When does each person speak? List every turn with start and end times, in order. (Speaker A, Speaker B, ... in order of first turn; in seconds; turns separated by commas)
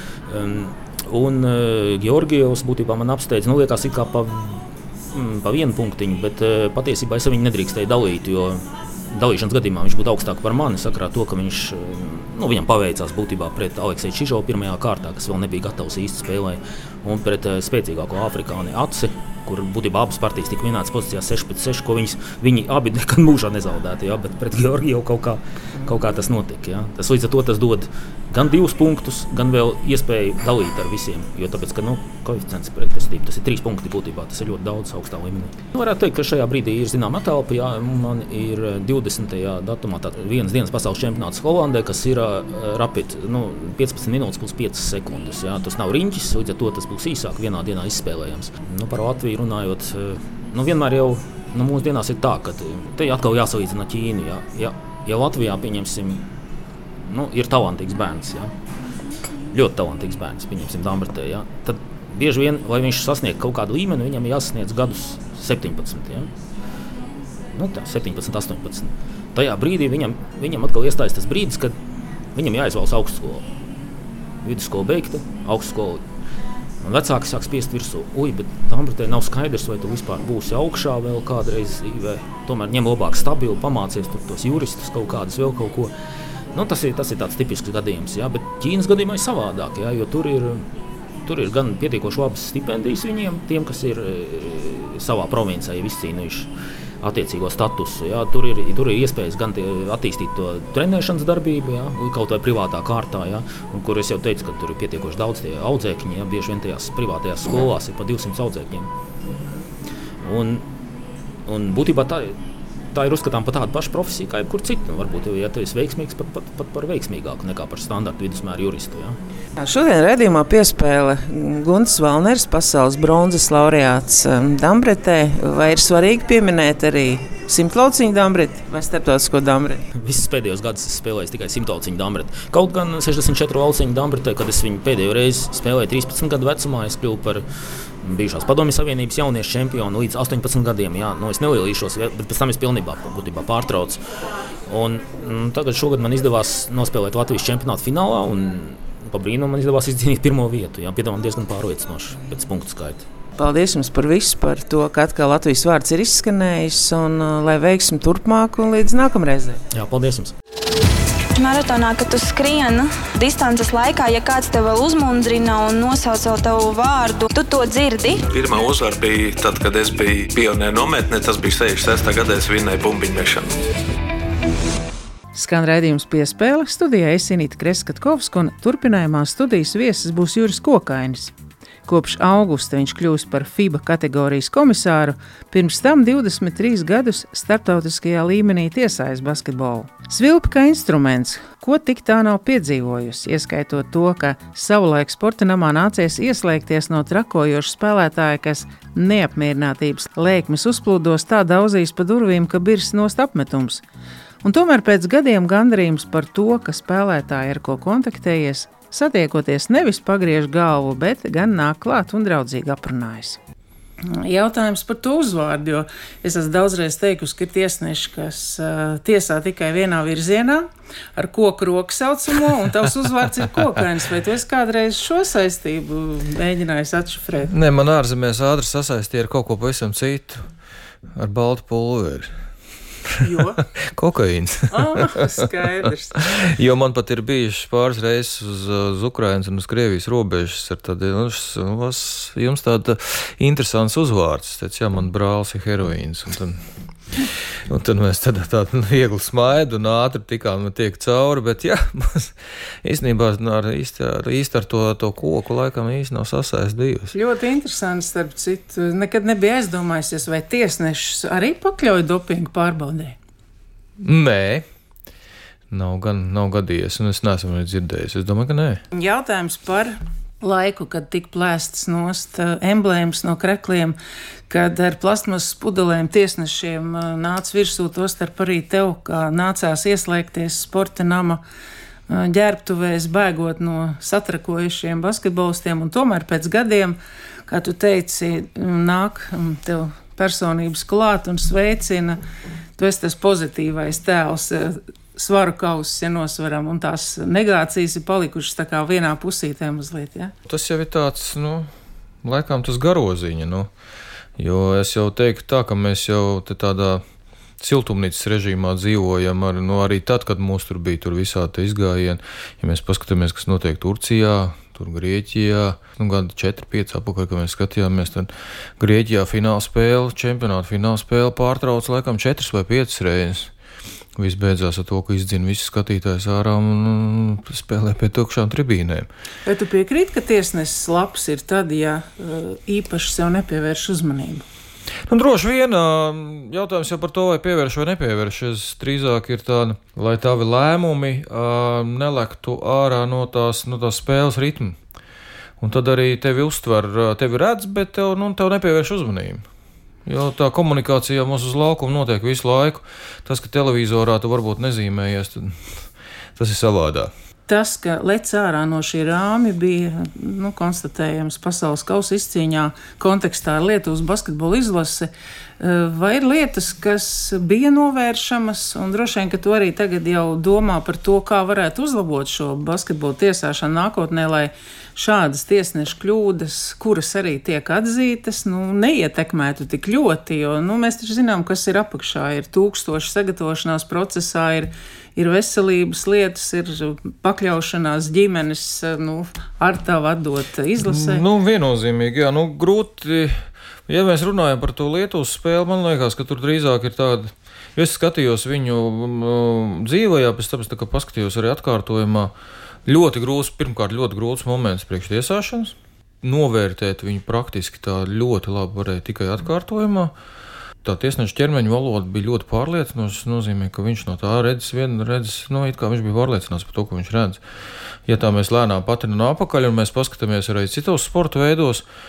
Speaker A: 0.3-56.3, Speaker A: 57.1-58.5, Speaker A: 59.5-66.3, Speaker A: 67.5-71.8, Speaker A: 72.3-73.5, Speaker A: 74.4-76.0, Speaker A: 76.8-85.9, Speaker A: 86.5-90.7, Speaker A: 91.2-96.5, Speaker A: 97.0-108.9, Speaker A: 110.2-110.7, Speaker A: 111.5-112.4, Speaker A: 112.9-119.2, Speaker B: 119.6-129.8, Speaker A: 129.9-137.4, Speaker A: 138.0-144.0, Speaker A: 144.7-153.0, Speaker B: 153.4-159.6, Speaker A: 159.7-160.3, Speaker C: 161.4-168.2, Speaker D: 168.3-173.6, Speaker B: 175.3-181.3, Speaker B: 181.9-203.8, Speaker B: 204.4-213.4, Speaker B: 214.0-227.5, Speaker E: 227.5-230.5, Speaker E: 231.2-232.3, Speaker B: 233.2-233.6, Speaker E: 233.8-235.3, Speaker B: 234.7-236.3, Speaker E: 236.2-246.6, Speaker E: 247.2-257.1, Speaker B: 257.1-263.2, Speaker E: 264.0-264.6, Speaker E: 265.7-268.8, Speaker B: 268.9-274.0, Speaker B: 274.5-281.4, Speaker B: 282.1-292.2, Speaker B: 292.8-300.3, Speaker E: 300.5-301.7, Speaker E: 302.2-303.7, Speaker E: 304.4-307.0, Speaker E: 307.6-323.5, Speaker E: 324.2-329.1, Speaker B: 329.5-334.4, Speaker E: 335.1-344.8, Speaker E: 345.6-349.4, Speaker E: 350.1-355.9, Speaker E: 356.4-357.1, Speaker B: 357.5-391.2, Speaker E: 390.8-402.3, Speaker E: 402.9-410.1, Speaker E: 410.8-417.4, Speaker E: 418.1-421.9